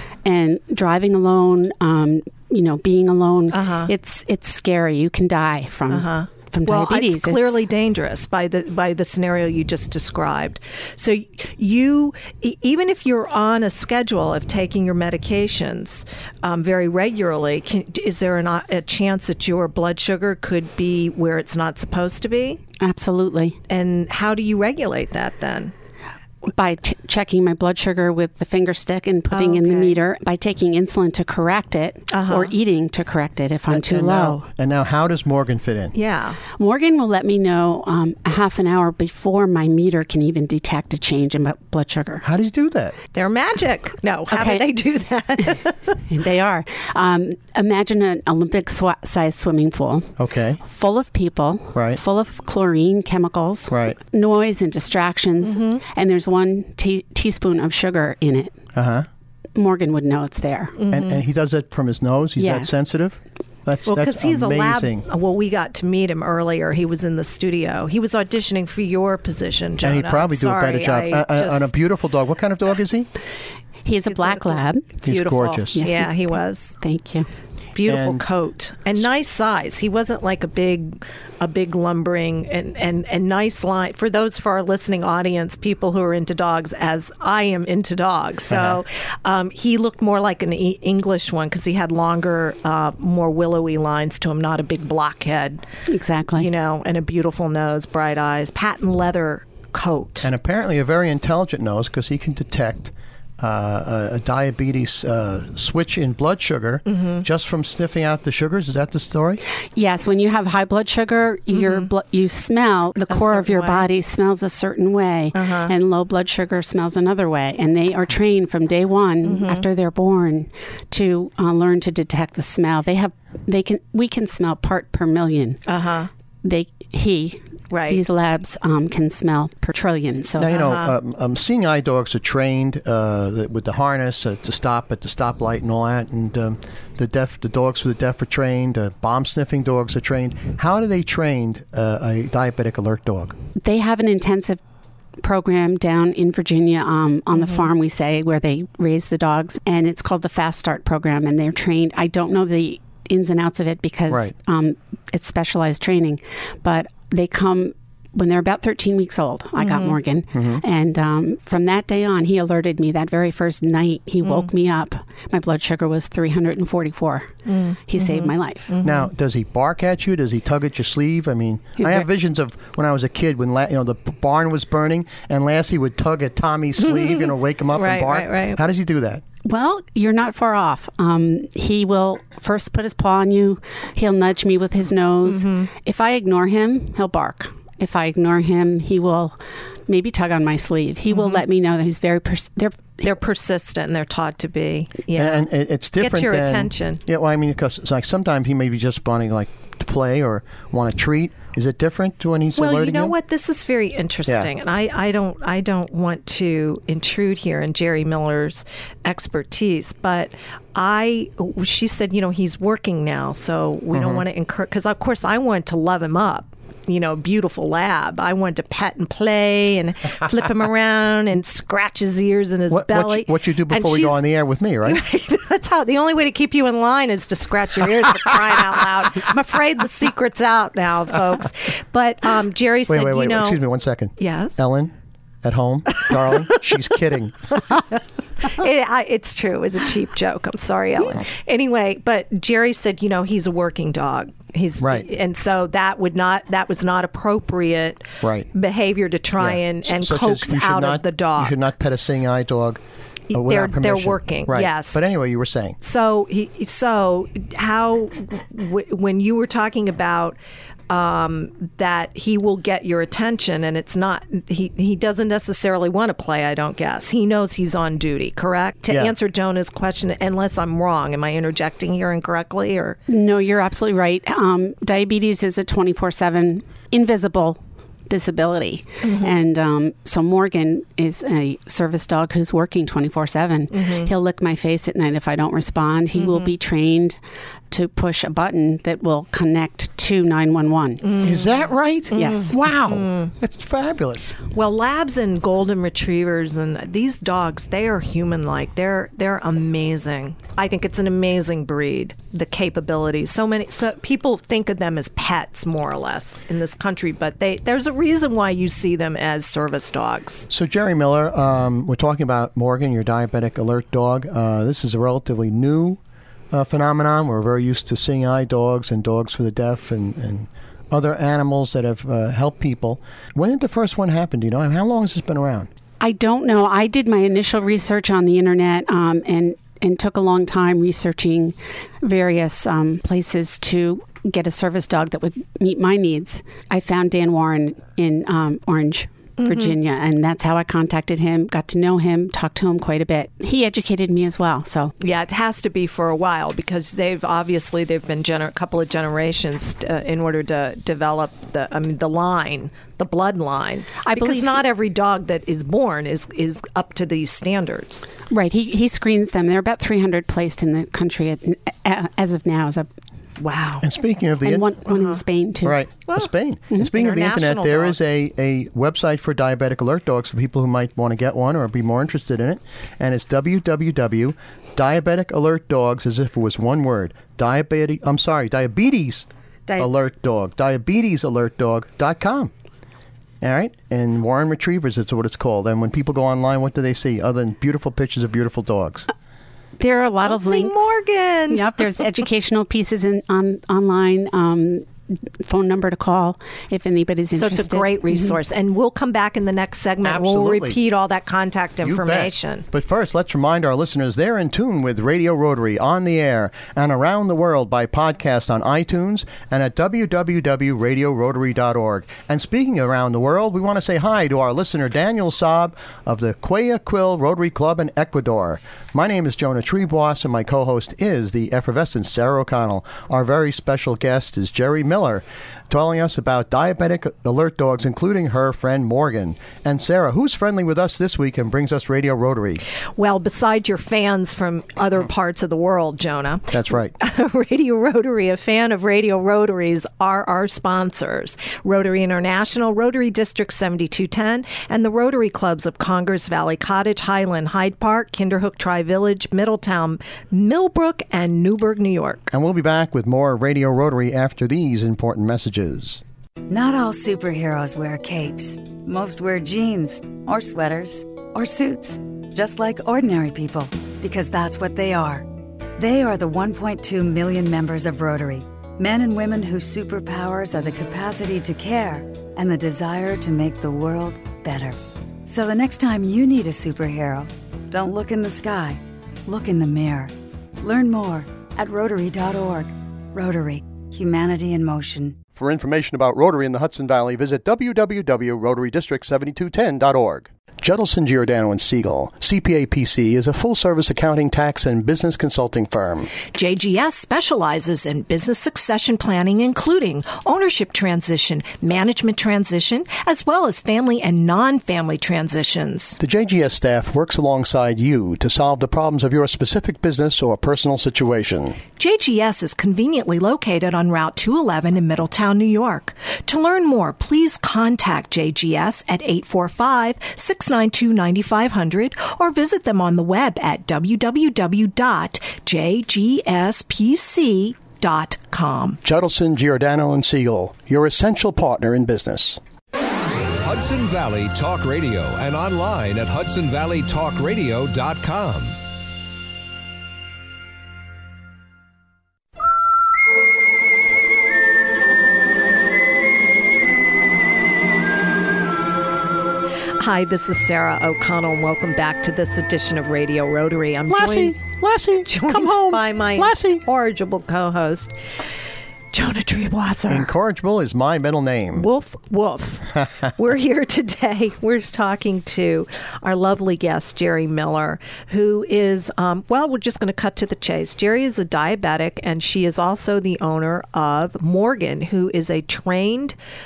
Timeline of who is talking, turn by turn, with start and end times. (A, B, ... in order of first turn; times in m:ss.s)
0:00.2-0:07.6 A
0:03.5-0:03.9 B
0:05.9-0:22.6 B
0:22.8-0:23.6 A
0:23.7-0:25.7 B
0:26.4-0:34.4 A
0:29.3-0:29.9 B
0:32.1-0:32.5 B
0:33.7-0:35.9 C
0:35.9-0:36.4 B
0:36.6-0:42.3 A
0:42.2-0:43.0 C
0:43.1-0:45.9 B
0:44.3-0:44.6 A
0:46.1-0:50.1 A
0:50.2-0:50.6 C
0:50.6-0:58.6 A
0:51.7-0:52.0 C
0:53.7-0:54.0 C
0:55.4-0:55.8 B
0:58.7-0:59.1 C
0:59.6-1:00.8 A
1:00.8-1:01.2 B
1:00.9-1:05.0 C
1:02.4-1:02.8 A
1:03.8-1:11.7 B
1:09.8-1:13.1 C
1:13.8-1:14.9 A
1:14.1-1:16.7 B
1:15.0-1:15.8 C
1:15.7-1:16.1 A
1:16.8-1:17.3 A
1:17.7-1:35.6 B
1:17.8-1:18.2 C
1:28.5-1:28.8 C
1:35.9-1:36.5 A
1:36.4-1:40.3 B
1:40.2-1:49.4 C
1:46.9-1:47.2 B
1:49.8-2:05.6 A
1:51.5-1:51.9 B
1:53.1-1:53.8 B
1:55.3-1:55.7 B
1:59.2-1:59.6 B
2:05.7-2:06.1 B
2:06.4-2:10.5 A
2:07.7-2:08.0 B
2:10.4-2:23.3 C
2:10.5-2:10.9 B
2:23.6-2:24.6 A
2:25.2-2:47.4 A
2:27.4-2:27.7 B
2:39.6-2:40.0 B
2:40.3-2:40.6 C
2:47.5-2:49.1 B
2:47.9-2:48.7 A
2:48.8-2:59.2 C
2:51.8-2:52.0 A
2:56.8-2:58.6 B
2:59.4-3:13.0 A
3:05.3-3:05.7 B
3:11.1-3:11.4 B
3:13.0-3:17.0 B
3:15.1-3:23.1 C
3:22.6-3:44.2 B
3:33.9-3:34.2 C
3:42.7-3:45.0 C
3:44.8-3:53.6 B
3:52.9-3:57.5 C
3:54.2-3:54.6 B
3:58.4-4:11.5 B
4:04.8-4:05.1 C
4:08.2-4:08.5 C
4:09.4-4:12.8 C
4:13.3-4:15.0 B
4:13.3-4:15.8 C
4:15.8-4:20.4 B
4:20.9-4:33.0 B
4:33.1-4:47.2 A
4:39.0-4:39.3 B
4:43.7-4:44.1 B
4:47.7-4:51.1 A
4:51.0-4:51.5 B
4:51.2-4:54.4 C
4:52.1-4:53.3 B
4:52.1-4:52.5 A
4:54.5-5:10.5 B
5:10.5-5:16.0 C
5:16.5-5:25.7 C
5:26.0-5:44.9 A
5:39.4-5:39.7 B
5:45.0-5:58.1 B
5:54.0-5:54.6 A
5:58.3-6:02.9 A
6:03.4-6:03.8 B
6:03.8-6:04.7 C
6:04.4-6:05.8 A
6:04.9-6:05.2 B
6:05.6-6:19.2 C
6:06.1-6:08.0 B
6:19.8-6:22.5 C
6:23.4-6:29.1 C
6:29.8-6:30.9 A
6:30.3-6:31.7 B
6:31.5-6:34.9 A
6:35.4-6:38.3 A
6:37.3-6:42.6 B
6:40.0-6:40.8 C
6:41.8-7:12.6 C
7:13.0-7:32.3 B
7:16.5-7:16.9 C
7:32.3-7:36.0 C
7:36.5-8:05.2 D
8:05.4-8:16.1 C
8:16.3-8:26.0 B
8:26.0-8:31.6 C
8:31.8-8:48.8 B
8:48.8-8:52.4 C
8:53.4-8:58.6 E
9:09.8-9:14.4 B
9:13.9-9:16.6 C
9:15.0-9:17.9 B
9:18.9-9:20.1 B
9:19.9-9:21.7 C
9:21.5-9:36.2 B